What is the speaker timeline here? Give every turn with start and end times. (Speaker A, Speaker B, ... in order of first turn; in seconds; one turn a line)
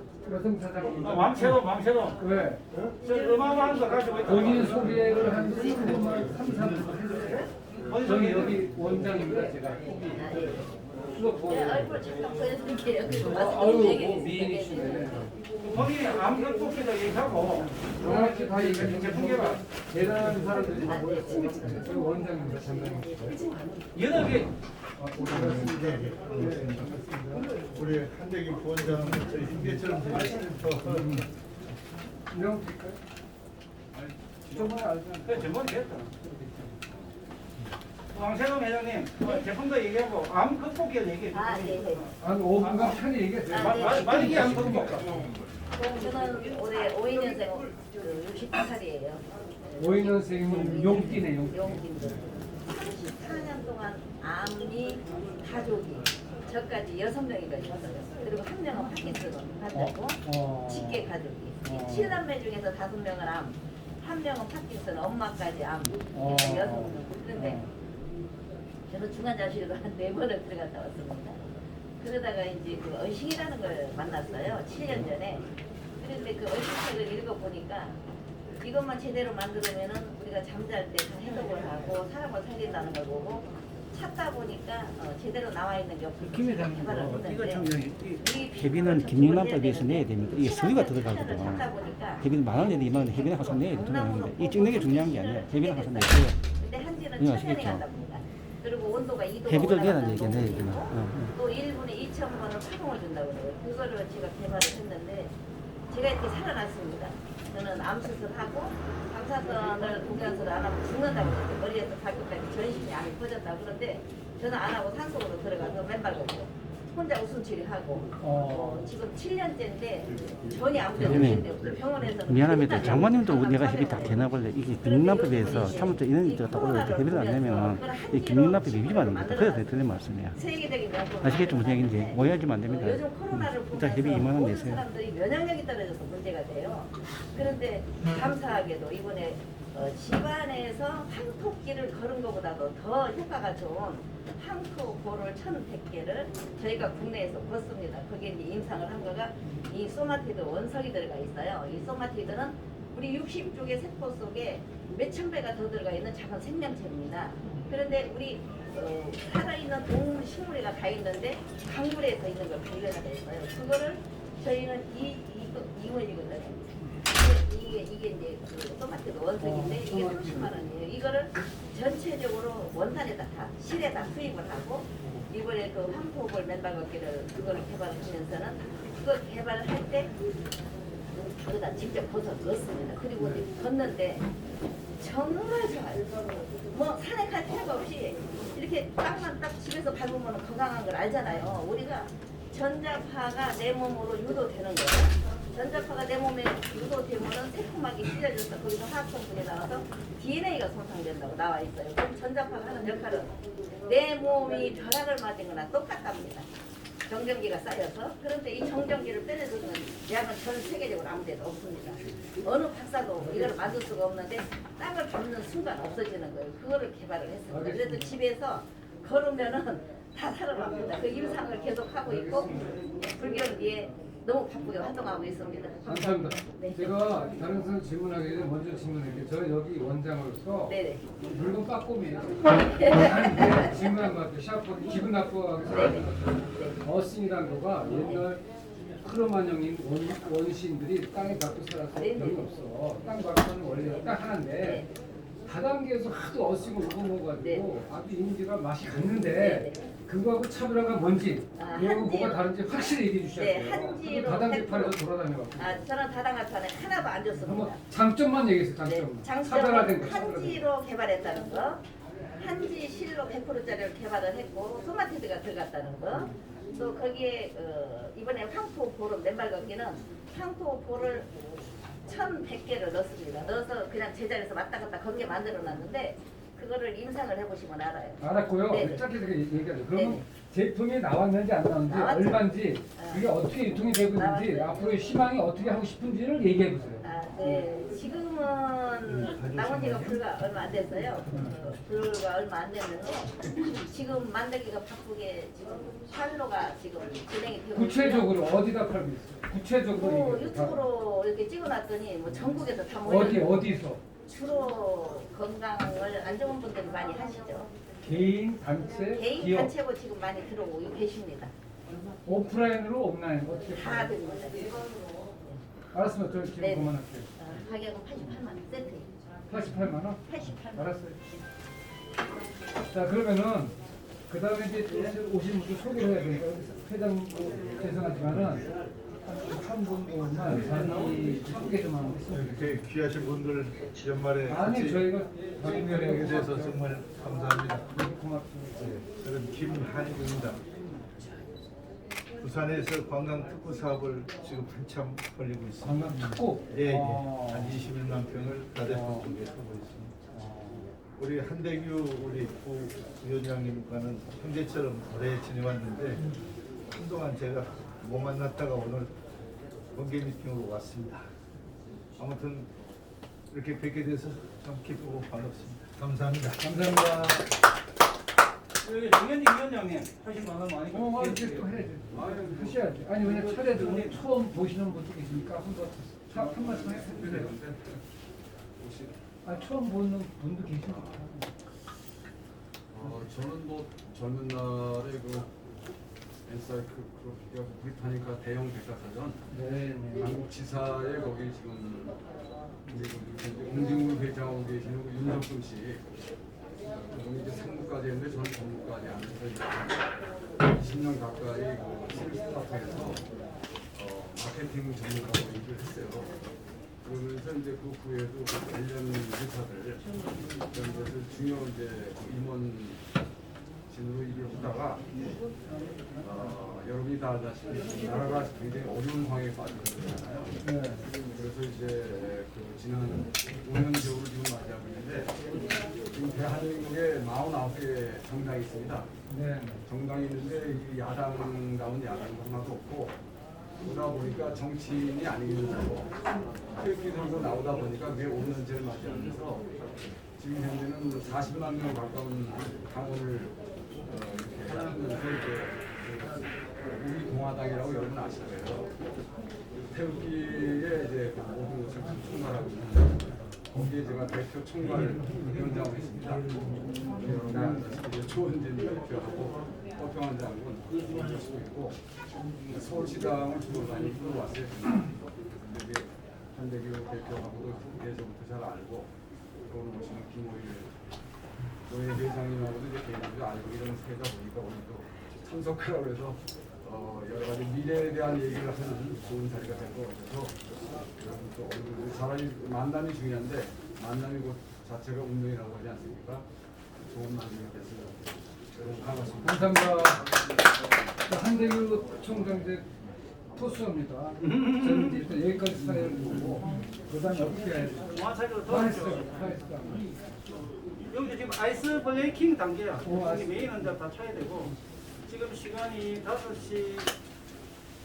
Speaker A: 0.2-1.6
Speaker B: 1.0-2.2
Speaker A: 2.2-2.6
Speaker B: 2.8-5.2
Speaker A: 4.2-12.0
Speaker B: 7.8-8.7
Speaker C: 10.1-10.5
Speaker C: 11.4-15.1
Speaker A: 13.1-15.3
Speaker B: 15.6-20.3
Speaker A: 18.0-23.5
Speaker C: 20.8-21.6
Speaker B: 23.9-24.5
Speaker A: 25.0-27.4
Speaker D: 25.2-27.0
Speaker D: 27.6-31.2
Speaker A: 30.8-31.2
Speaker A: 32.3-33.0
Speaker A: 34.5-35.5
Speaker B: 35.2-36.2
Speaker A: 36.2-36.7
Speaker B: 38.1-45.1
Speaker C: 41.3-42.1
Speaker A: 42.2-44.9
Speaker C: 43.5-67.6
Speaker A: 49.8-52.3
Speaker A: 59.7-61.1
Speaker A: 61.6-62.2
Speaker A: 66.1-67.7
Speaker C: 68.9-71.4
Speaker C: 72.0-75.4
Speaker C: 76.0-78.0
Speaker C: 78.6-105.3
Speaker B: 86.2-88.2
Speaker E: 88.6-91.7
Speaker E: 92.2-96.4
Speaker E: 97.2-97.8
Speaker E: 99.5-101.3
Speaker C: 105.9-129.7
Speaker A: 118.2-118.9
Speaker E: 121.0-121.5
Speaker E: 122.2-130.4
Speaker C: 130.3-180.1
Speaker E: 131.2-134.8
Speaker A: 169.4-170.6
Speaker C: 181.1-184.3
Speaker C: 185.0-206.5
Speaker C: 207.1-226.9
Speaker A: 213.2-213.7
Speaker A: 217.5-218.1
Speaker A: 222.0-222.8
Speaker A: 225.8-238.4
Speaker C: 230.7-231.1
Speaker C: 232.6-233.7
Speaker C: 235.7-236.8
Speaker A: 239.0-244.9
Speaker C: 242.0-242.4
Speaker C: 244.6-244.9
Speaker A: 245.4-255.8
Speaker C: 247.4-247.7
Speaker C: 249.0-249.8
Speaker C: 251.5-255.0
Speaker C: 255.6-257.8
Speaker A: 257.4-260.6
Speaker C: 258.8-261.8
Speaker C: 262.4-271.3
Speaker C: 272.0-279.0
Speaker A: 278.2-287.6
Speaker C: 279.9-280.2
Speaker C: 281.9-283.3
Speaker C: 284.1-285.0
Speaker C: 287.0-298.4
Speaker A: 297.7-300.8
Speaker C: 299.9-303.6
Speaker A: 303.0-304.0
Speaker C: 304.2-307.7
Speaker A: 308.0-309.7
Speaker C: 309.1-311.5
Speaker A: 312.2-314.1
Speaker C: 313.7-314.8
Speaker A: 315.9-317.3
Speaker C: 316.6-319.1
Speaker A: 319.5-321.2
Speaker C: 320.2-320.9
Speaker A: 322.8-328.7
Speaker A: 329.2-332.8
Speaker B: 330.5-331.6
Speaker D: 332.3-338.0
Speaker A: 334.4-336.8
Speaker A: 337.9-339.0
Speaker D: 338.8-340.6
Speaker D: 342.4-350.1
Speaker A: 345.8-347.8
Speaker A: 348.8-349.3
Speaker A: 350.3-350.9
Speaker D: 351.1-356.3
Speaker D: 356.9-359.1
Speaker D: 359.9-361.3
Speaker D: 362.2-362.7
Speaker D: 363.5-366.6
Speaker A: 366.6-367.5
Speaker B: 368.8-371.8
Speaker A: 370.9-377.5
Speaker F: 372.1-372.9
Speaker B: 373.2-374.2
Speaker F: 376.3-378.0
Speaker F: 378.8-379.2
Speaker A: 379.4-381.5
Speaker F: 380.9-381.2
Speaker F: 382.9-385.5
Speaker F: 386.4-392.2
Speaker A: 389.5-390.4
Speaker F: 392.9-396.0
Speaker F: 396.8-403.2
Speaker F: 403.9-406.4
Speaker F: 407.0-413.0
Speaker F: 413.9-415.1
Speaker F: 416.2-429.1
Speaker A: 420.6-421.1
Speaker A: 429.3-429.8
Speaker F: 429.9-433.1
Speaker F: 433.8-436.1
Speaker F: 436.7-439.7
Speaker F: 440.4-448.9
Speaker F: 449.9-462.0
Speaker F: 462.6-469.1
Speaker F: 469.7-470.9
Speaker F: 471.9-480.6
Speaker F: 481.1-490.1
Speaker A: 489.4-490.3
Speaker A: 491.2-492.9
Speaker A: 493.5-498.1
Speaker B: 494.4-495.3
Speaker B: 497.3-499.4
Speaker A: 498.7-500.0
Speaker B: 501.1-504.7
Speaker A: 503.0-503.7
Speaker B: 505.2-507.1